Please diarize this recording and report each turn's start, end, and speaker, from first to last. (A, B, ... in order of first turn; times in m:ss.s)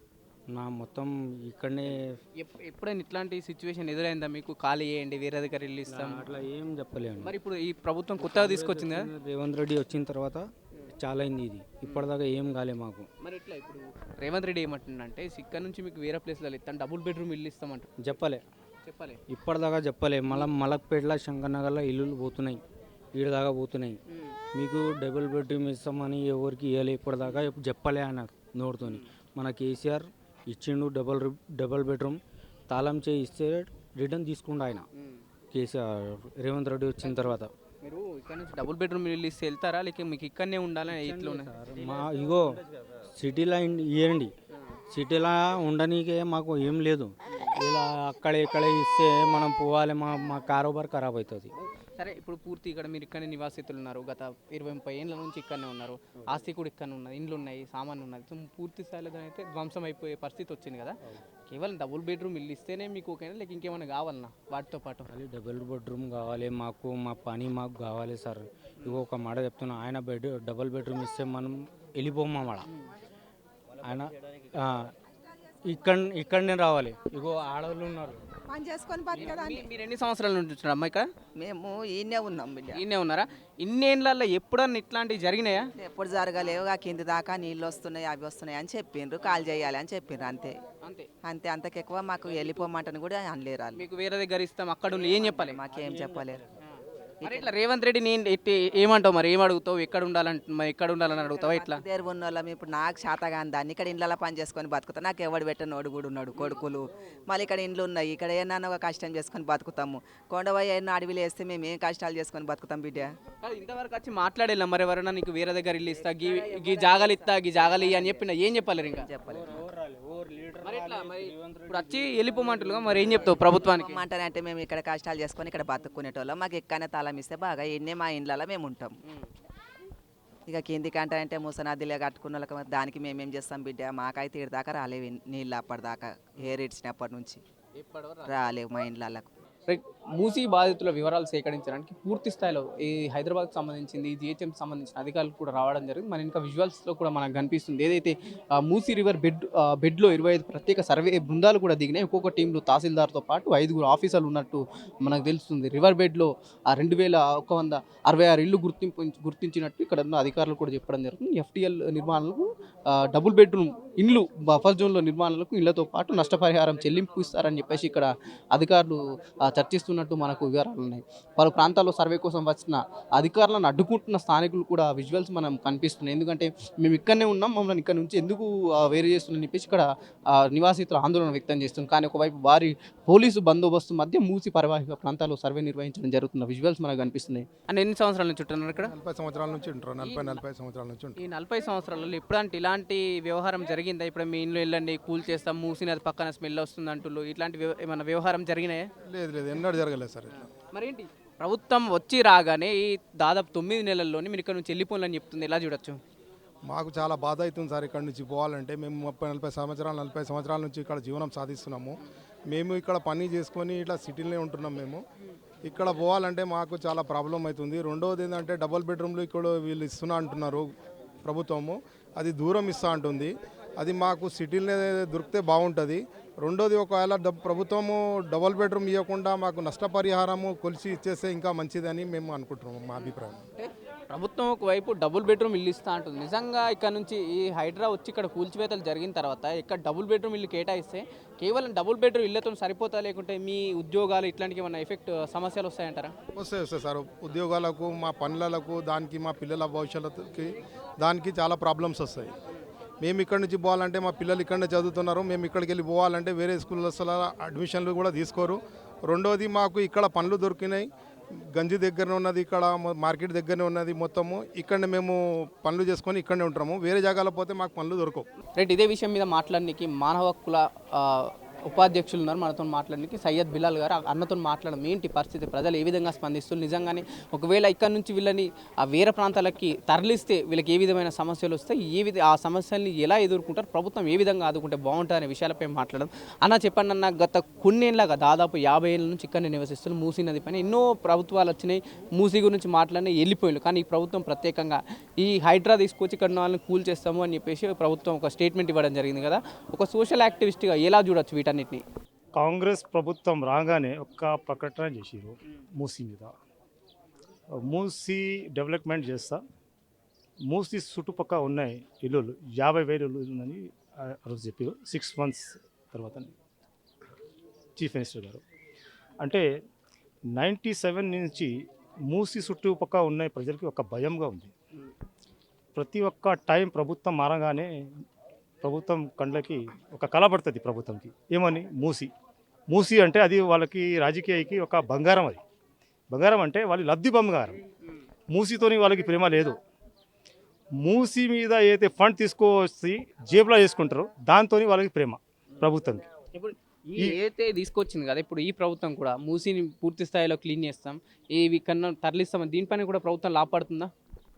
0:00.5-0:02.2 A
0:02.4-0:06.3 B
0:05.9-0:07.4 A
0:07.2-0:09.1 B
0:08.2-0:10.5 A
0:11.0-0:13.1 A
0:11.8-0:12.1 B
0:13.2-0:17.9 B
0:18.0-0:18.4 A
0:18.8-0:19.2 B
0:19.3-0:22.6 A
0:23.2-0:24.0 A
0:24.1-0:24.4 B
0:24.6-0:34.9 A
0:35.5-0:37.5 A
0:37.0-0:41.5 B
0:40.9-0:44.3 A
0:44.9-0:51.5 A
0:52.0-1:05.1 B
1:05.1-1:12.7 A
1:13.8-1:14.9 A
1:15.7-1:18.2 A
1:18.5-1:19.7 C
1:19.1-1:21.1 B
1:21.4-1:22.8 C
1:22.7-1:25.7 B
1:25.8-1:30.6 C
1:31.2-1:33.8 C
1:32.3-1:32.7 B
1:33.8-1:35.6 B
1:35.0-1:36.4 C
1:36.0-1:36.2 A
1:37.2-1:37.5 C
1:37.2-1:41.8 B
1:41.2-1:53.2 C
1:46.4-1:46.6 B
1:53.4-1:59.1 B
1:58.8-1:59.6 C
1:59.3-2:02.9 A
2:00.6-2:04.0 B
2:02.9-2:09.0 C
2:10.5-2:17.4 C
2:17.8-2:18.4 B
2:18.2-2:19.4 C
2:19.7-3:08.9 B
3:08.8-3:11.2 D
3:10.0-3:10.4 B
3:11.2-3:18.9 B
3:19.0-3:20.5 D
3:20.7-3:26.0 B
3:26.7-3:35.0 D
3:35.6-3:40.7 D
3:41.2-3:53.4 D
3:53.0-4:06.1 B
4:06.3-4:12.3 D
4:13.0-4:20.9 D
4:21.6-4:28.3 D
4:28.6-5:01.8 B
5:02.4-5:06.3 E
5:07.7-5:09.4 E
5:10.5-5:16.4 E
5:17.8-5:18.4 E
5:19.2-5:19.5 E
5:20.4-5:21.5 E
5:22.1-5:24.5 E
5:25.8-5:27.7 E
5:28.6-5:32.1 E
5:32.7-5:35.4 E
5:36.1-5:37.6 E
5:38.3-5:39.6 E
5:40.8-5:46.1 E
5:46.3-5:53.9 B